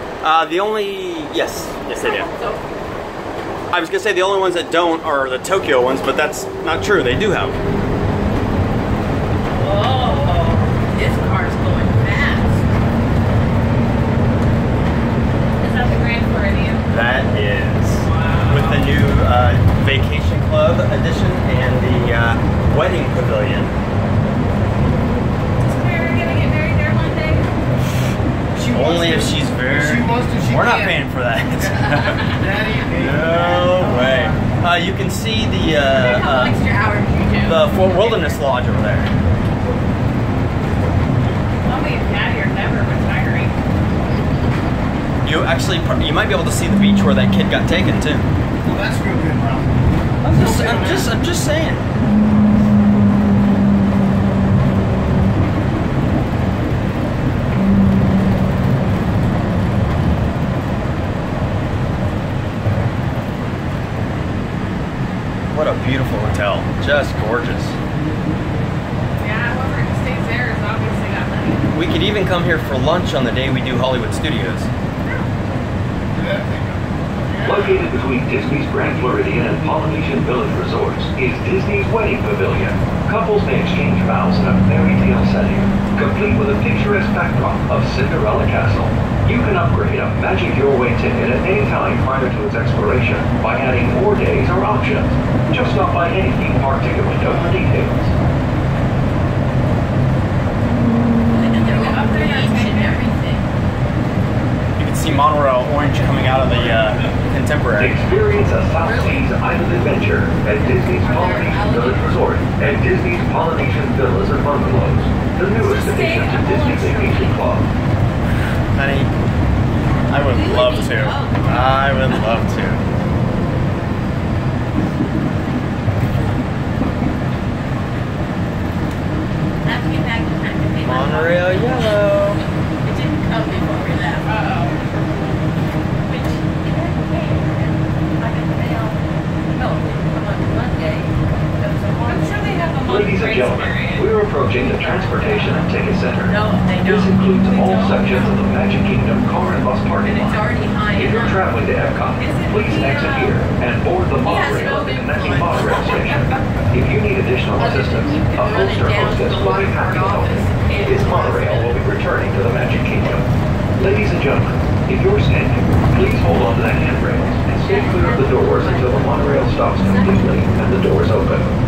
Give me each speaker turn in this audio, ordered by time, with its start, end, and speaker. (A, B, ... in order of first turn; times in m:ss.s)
0:00.2-0:02.3 A
0:01.9-0:02.6 B
0:03.7-0:07.6 A
0:09.6-0:12.6 B
0:10.0-0:10.4 C
0:15.6-0:16.8 C
0:16.9-0:23.7 A
0:18.0-0:18.9 C
0:25.6-0:27.5 C
0:28.5-0:31.0 D
0:28.7-0:32.4 A
0:31.6-0:34.3 D
0:33.0-0:36.6 A
0:35.9-0:38.4 B
0:37.4-0:39.1 A
0:41.7-0:43.5 C
0:45.2-0:48.3 A
0:48.6-0:51.1 D
0:50.2-0:51.8 A
1:05.5-1:07.7 A
1:09.2-1:11.6 C
1:11.7-1:14.7 A
1:16.2-1:16.8 D
1:17.4-1:38.1 E
1:41.3-1:43.4 B
1:41.6-1:43.0 C
1:44.8-1:48.0 A
1:47.8-1:57.7 E
1:48.8-1:49.3 B
1:50.6-1:52.2 B
1:55.6-1:57.4 B
1:58.7-1:59.1 A
2:00.1-2:02.8 A
2:00.2-2:02.0 B
2:09.6-2:12.0 B
2:10.8-2:12.4 A
2:12.8-2:14.4 B
2:14.2-2:14.8 C
2:16.1-2:22.8 B
2:22.0-2:24.2 C
2:22.8-2:43.2 E
2:24.6-2:25.4 B
2:24.7-2:25.7 C
2:26.2-2:28.4 B
2:27.6-2:28.1 C
2:30.0-2:31.5 B
2:32.2-2:33.3 C
2:34.2-2:36.2 B
2:35.9-2:36.2 C
2:37.6-2:41.8 B
2:43.8-2:51.5 E
2:47.6-2:50.4 B